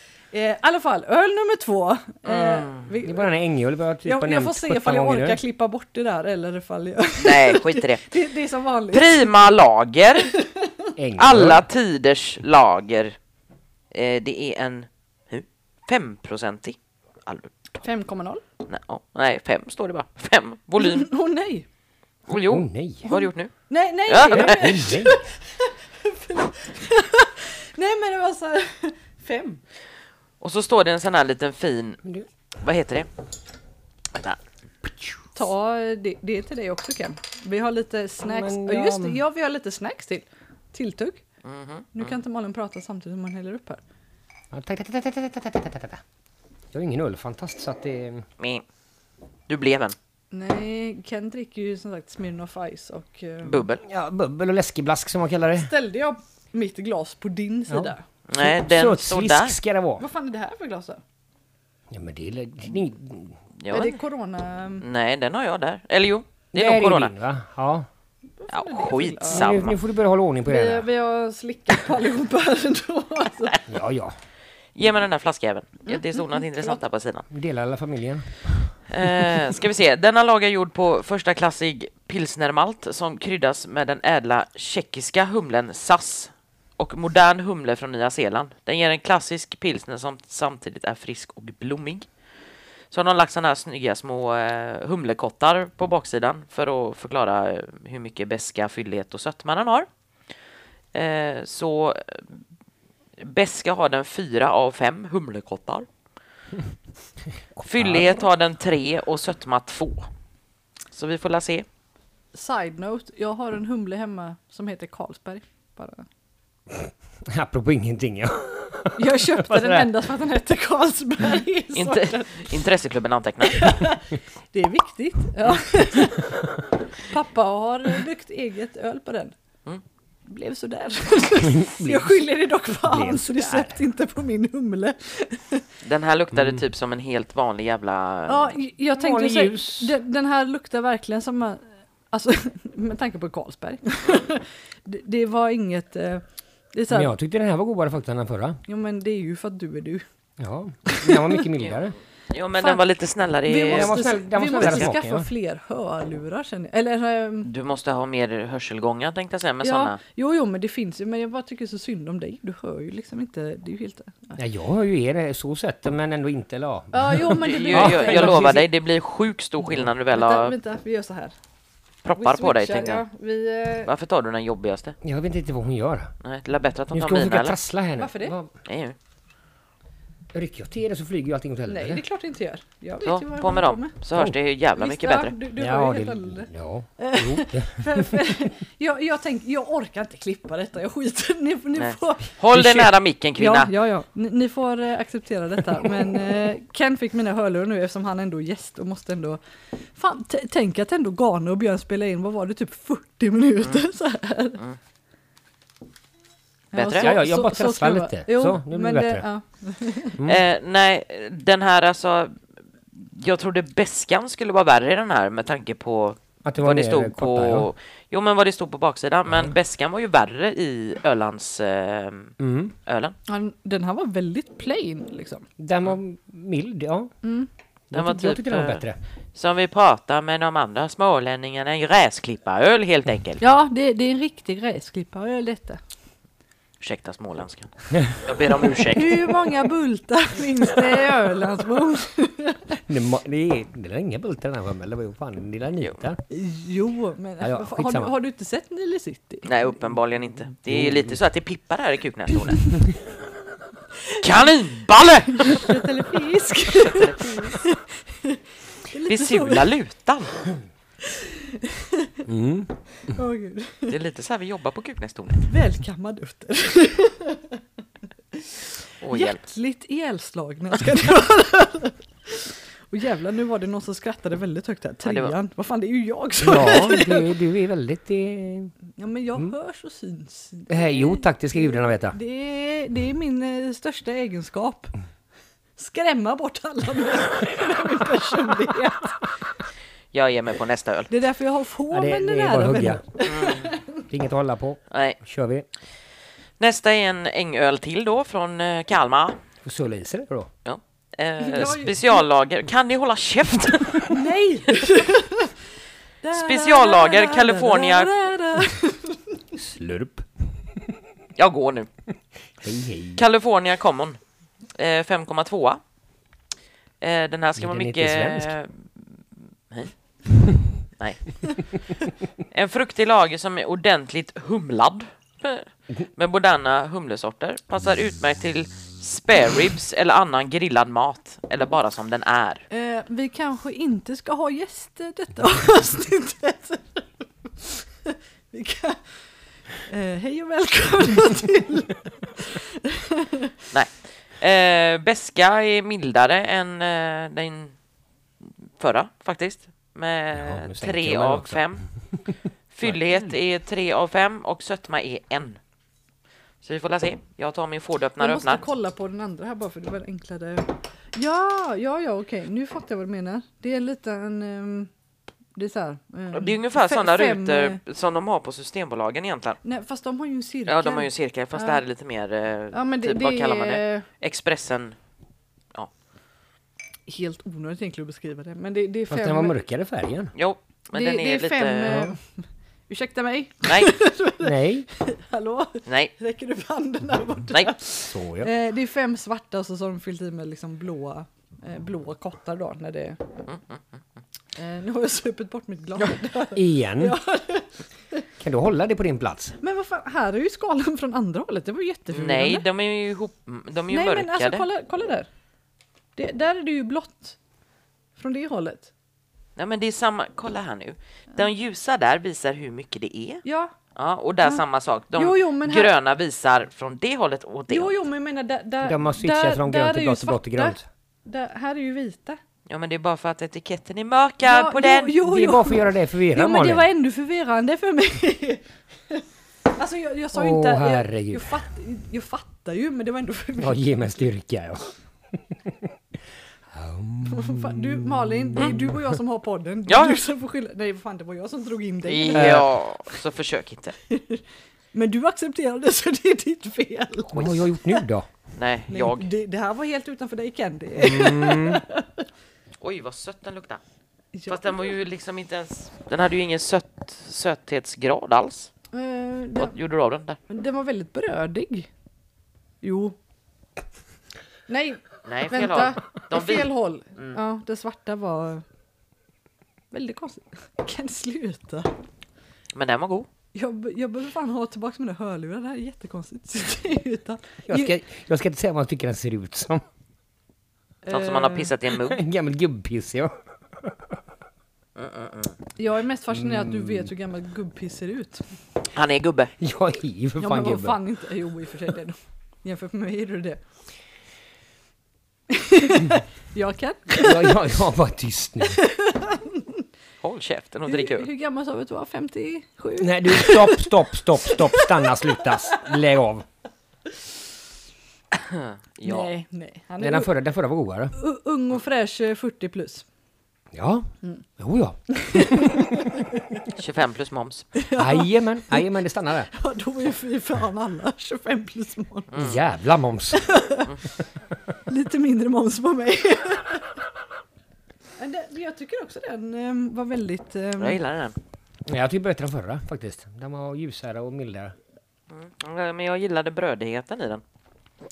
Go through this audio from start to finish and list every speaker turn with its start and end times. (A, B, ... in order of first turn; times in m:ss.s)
0:00.3-0:03.3 A
0:02.3-0:02.8 B
0:03.0-0:05.4 C
0:04.0-0:09.3 A
0:07.2-0:08.0 B
0:08.9-0:10.3 B
0:10.3-0:10.9 A
0:11.0-0:11.6 C
0:11.2-0:13.2 B
0:13.9-0:17.8 B
0:17.8-0:18.4 A
0:18.7-0:21.1 B
0:20.8-0:21.6 A
0:22.3-0:23.5 B
0:22.4-0:23.0 C
0:23.0-0:29.6 A
0:24.1-0:24.8 B
0:24.2-0:25.2 C
0:30.4-0:32.0 B
0:32.6-0:33.1 B
0:34.1-0:34.4 B
0:35.3-0:41.2 A
0:38.2-0:39.2 C
0:41.4-0:42.1 B
0:41.9-0:43.8 A
0:44.5-0:46.0 C
0:46.7-0:48.2 C
0:48.4-0:48.6 B
0:49.5-0:49.9 B
0:50.3-0:53.6 A
0:53.4-0:53.8 B
0:53.8-0:55.7 C
0:55.6-0:58.0 A
0:57.7-1:00.0 C
0:58.3-0:59.6 B
1:00.0-1:01.0 A
1:01.9-1:03.4 C
1:03.6-1:03.9 B
1:03.7-1:04.8 A
1:04.8-1:07.1 B
1:06.5-1:07.9 C
1:08.4-1:09.6 A
1:08.5-1:09.8 B
1:09.3-1:10.8 C
1:10.4-1:13.6 A
1:13.7-1:14.2 C
1:14.8-1:17.2 B
1:15.8-1:16.8 A
1:17.3-1:19.4 C
1:18.9-1:32.1 B
1:32.9-1:39.9 B
1:40.9-1:42.2 B
1:43.2-1:45.9 B
1:47.5-1:48.2 C
1:47.6-1:50.1 B
1:50.9-1:51.6 B
1:52.3-1:56.0 A
1:57.2-1:59.9 C
1:58.9-2:02.5 A
2:01.7-2:03.7 B
2:03.4-2:06.3 A
2:07.0-2:09.3 A
2:10.3-2:15.6 A
2:11.4-2:12.2 C
2:12.8-2:13.8 C
2:15.8-2:18.5 B
2:18.3-2:26.2 A
2:19.0-2:19.9 C
2:26.7-2:27.1 A
2:26.9-2:28.6 C
2:28.7-2:30.0 A
2:30.4-2:31.9 C
2:30.8-2:31.4 A
2:31.6-2:34.0 B
2:32.6-2:32.8 A
2:33.4-2:37.5 A
2:33.7-2:35.3 C
2:34.6-2:34.9 B
2:37.4-2:40.0 B
2:39.6-2:44.4 A
2:44.4-2:48.6 C
2:46.9-2:48.6 A
2:47.4-2:50.5 B
2:50.1-2:51.3 A
2:52.0-2:53.0 B
2:52.1-2:53.9 A
2:53.8-2:55.0 B
2:55.0-2:56.1 C
2:56.2-2:57.6 B
2:56.9-2:58.5 C
2:58.0-2:58.3 A
2:58.6-2:58.9 B
3:00.3-3:02.0 C
3:01.7-3:03.9 A
3:03.0-3:05.3 B
3:04.8-3:12.3 A
3:05.6-3:08.3 C
3:11.8-3:13.7 B
3:12.5-3:12.9 C
3:13.4-3:24.6 A
3:26.7-3:30.2 A
3:26.7-3:27.1 B
3:27.0-3:29.2 C
3:30.2-3:32.4 B
3:32.9-3:42.3 B
3:36.4-3:37.7 C
3:42.4-3:42.7 C
3:42.8-3:43.1 B
3:43.3-3:45.5 A
3:45.6-3:47.1 C
3:47.2-3:47.5 A
3:47.9-3:49.0 C
3:47.9-3:53.4 B
3:53.4-3:55.8 A
3:56.8-3:59.3 B
3:58.8-4:02.8 A
4:02.9-4:06.2 C
4:06.3-4:09.5 A
4:07.4-4:08.1 C
4:09.4-4:12.8 B
4:10.7-4:11.2 C
4:14.2-4:15.8 B
4:15.3-4:19.7 A
4:16.7-4:17.6 B
4:19.1-4:20.4 B
4:21.0-4:22.2 A
4:22.2-4:22.7 C
4:23.0-4:24.0 A
4:23.9-4:25.5 B
4:25.4-4:27.6 A
4:28.3-4:37.3 A
4:29.0-4:29.4 B
4:35.0-4:35.3 B
4:36.4-4:38.7 C
4:39.0-4:44.9 A
4:40.7-4:42.2 C
4:45.8-4:49.3 A
4:50.1-4:51.1 B
4:51.1-4:54.0 A
4:51.9-4:53.0 C
4:53.2-4:53.7 B
4:54.1-4:55.6 C
4:54.9-4:55.2 B
4:56.6-4:59.4 B
4:59.6-5:00.5 C
5:00.6-5:04.2 B
5:01.4-5:02.2 A
5:04.1-5:05.5 A
5:06.2-5:09.4 A
5:06.3-5:08.1 B
5:09.6-5:10.3 C
5:11.4-5:11.9 B
5:12.6-5:13.2 C
5:13.2-5:14.2 B
5:14.7-5:15.8 B
5:17.0-5:19.9 B
5:17.6-5:18.5 C
5:21.0-5:21.6 B
5:22.5-5:32.6 B
5:32.7-5:39.2 A
5:39.8-5:43.5 A
5:43.7-5:47.7 B
5:48.4-5:51.8 B
5:50.3-5:52.3 C
5:52.7-5:55.6 B
5:56.6-5:58.6 B
5:58.2-6:04.9 A
6:05.6-6:07.8 A
6:06.3-6:09.6 B
6:09.6-6:11.8 A
6:10.7-6:15.0 B
6:12.7-6:14.0 A
6:17.1-6:19.6 A
6:19.1-6:20.3 C
6:20.3-6:22.0 B
6:20.9-6:22.3 A
6:21.8-6:22.1 C
6:22.9-6:33.4 A
6:24.4-6:24.9 C
6:25.9-6:26.1 B
6:28.1-6:28.5 C
6:33.5-6:33.8 B
6:34.6-6:38.2 A
6:36.5-6:37.2 C
6:38.4-6:39.6 C
6:39.6-6:42.6 A
6:42.1-6:44.6 B
6:43.9-6:45.3 A
6:46.2-6:47.4 A
6:48.2-6:48.9 A
6:49.6-6:58.0 B
6:53.4-6:53.7 A
6:55.1-6:55.9 A
6:57.7-7:02.4 A
6:58.8-7:00.8 C
7:02.7-7:05.2 B
7:04.4-7:09.2 A
7:05.2-7:06.8 C
7:09.8-7:14.1 A
7:10.3-7:11.5 C
7:13.6-7:15.9 C
7:16.7-7:19.0 C
7:17.2-7:22.7 A
7:19.9-7:20.2 B
7:22.0-7:23.9 B
7:22.3-7:22.7 C
7:24.1-7:24.4 A
7:24.9-7:28.0 A
7:27.3-7:27.6 B
7:27.3-7:28.3 C
7:28.6-7:29.3 B
7:28.9-7:32.2 A
7:31.0-7:31.8 C
7:32.8-7:33.8 B
7:34.3-7:34.9 A
7:34.5-7:38.7 B
7:38.9-7:39.7 A
7:39.6-7:40.4 B
7:40.5-7:41.9 A
7:42.8-7:43.2 A
7:44.7-7:48.6 A
7:45.2-7:47.4 B
7:49.9-7:51.9 A
7:52.7-7:53.3 B
7:53.5-7:57.9 A
7:57.7-7:59.8 C
8:01.0-8:01.7 A
8:01.1-8:02.2 B
8:01.9-8:04.0 C
8:05.0-8:05.5 B
8:05.8-8:08.4 A
8:06.3-8:07.1 C
8:08.9-8:09.5 B
8:09.6-8:11.0 C
8:10.4-8:13.6 A
8:15.5-8:17.6 A
8:17.2-8:18.8 C
8:18.6-8:19.8 A
8:20.2-8:21.3 B
8:20.9-8:25.8 A
8:23.0-8:26.4 C
8:28.3-8:29.3 B
8:29.0-8:30.3 A
8:30.0-8:31.1 C
8:31.1-8:33.0 A
8:33.7-8:36.2 C
8:35.1-8:36.6 A
8:36.7-8:37.7 B
8:37.7-8:38.9 A
8:37.9-8:39.5 C
8:39.5-8:42.4 A
8:42.3-8:42.6 B
8:42.4-8:43.4 C
8:43.3-8:43.9 A
8:44.9-8:46.9 A
8:48.2-8:51.0 A
8:50.8-8:51.4 B
8:51.9-8:54.7 C
8:55.3-8:57.4 B